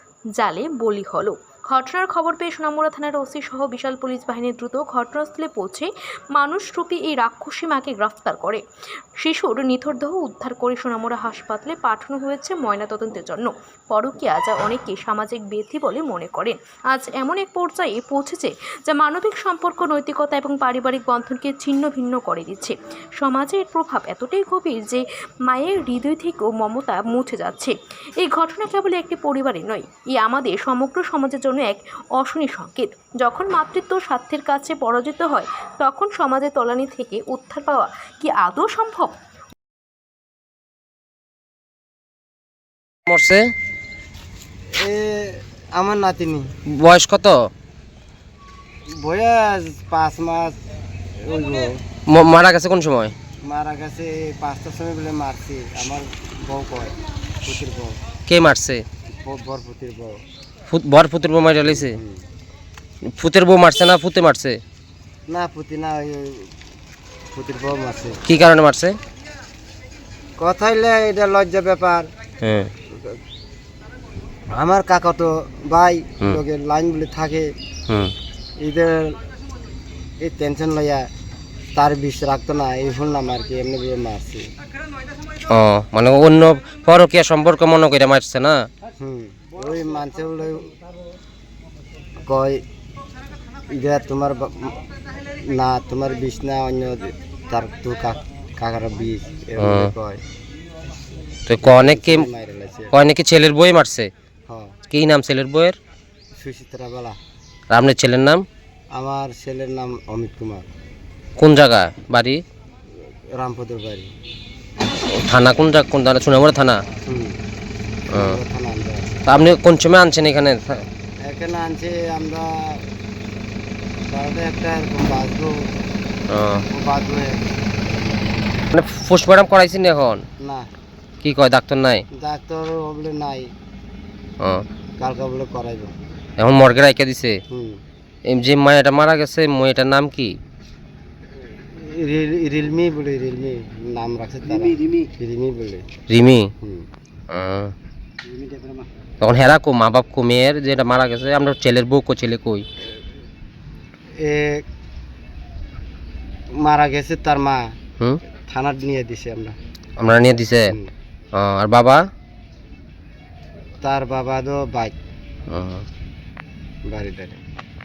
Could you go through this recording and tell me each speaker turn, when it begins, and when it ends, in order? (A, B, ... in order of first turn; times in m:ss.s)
0:00.4-0:08.6 A
0:09.2-0:39.2 A
0:43.1-0:43.5 B
0:44.8-0:46.5 C
0:46.7-0:47.5 B
0:48.9-0:50.6 C
0:51.2-0:51.8 C
0:52.1-0:53.1 B
0:53.4-0:58.0 C
0:58.3-0:58.8 B
0:59.2-1:00.2 C
1:00.7-1:02.0 B
1:01.6-1:02.2 C
1:03.2-1:04.6 B
1:05.3-1:06.5 C
1:07.3-1:08.2 C
1:08.3-1:08.9 B
1:10.4-1:12.1 C
1:12.4-1:12.7 B
1:14.5-1:17.5 C
1:18.6-1:19.2 C
1:20.2-1:21.1 C
1:21.8-1:24.5 C
1:25.5-1:28.6 B
1:29.0-1:30.7 C
1:32.2-1:32.6 C
1:33.7-1:34.8 C
1:35.4-1:40.2 C
1:39.6-1:39.9 B
1:41.5-1:42.3 B
1:41.6-1:42.9 C
1:42.9-1:44.1 B
1:44.5-1:44.8 C
1:44.9-1:45.8 B
1:46.4-1:47.2 C
1:47.7-1:48.4 B
1:49.0-1:50.7 C
1:51.4-1:52.4 B
1:53.3-1:54.1 C
1:55.1-1:56.8 B
1:57.1-1:57.4 C
1:58.1-1:59.1 C
1:58.1-1:58.4 B
1:59.3-2:00.8 B
2:01.2-2:02.9 C
2:04.1-2:05.6 C
2:06.3-2:06.6 B
2:06.7-2:07.5 C
2:08.7-2:10.2 B
2:10.4-2:10.7 C
2:11.2-2:12.0 B
2:12.1-2:13.5 C
2:15.0-2:15.9 C
2:16.4-2:17.4 B
2:17.5-2:17.8 C
2:18.3-2:20.4 B
2:21.7-2:25.9 C
2:26.1-2:26.5 B
2:26.6-2:26.9 C
2:27.3-2:27.7 B
2:28.4-2:28.8 C
2:29.2-2:32.6 B
2:34.2-2:34.7 C
2:36.6-2:37.8 C
2:38.5-2:39.6 C
2:40.0-2:40.8 B
2:41.4-2:42.0 B
2:43.8-2:45.0 C
2:45.5-2:45.8 B
2:46.9-2:47.4 C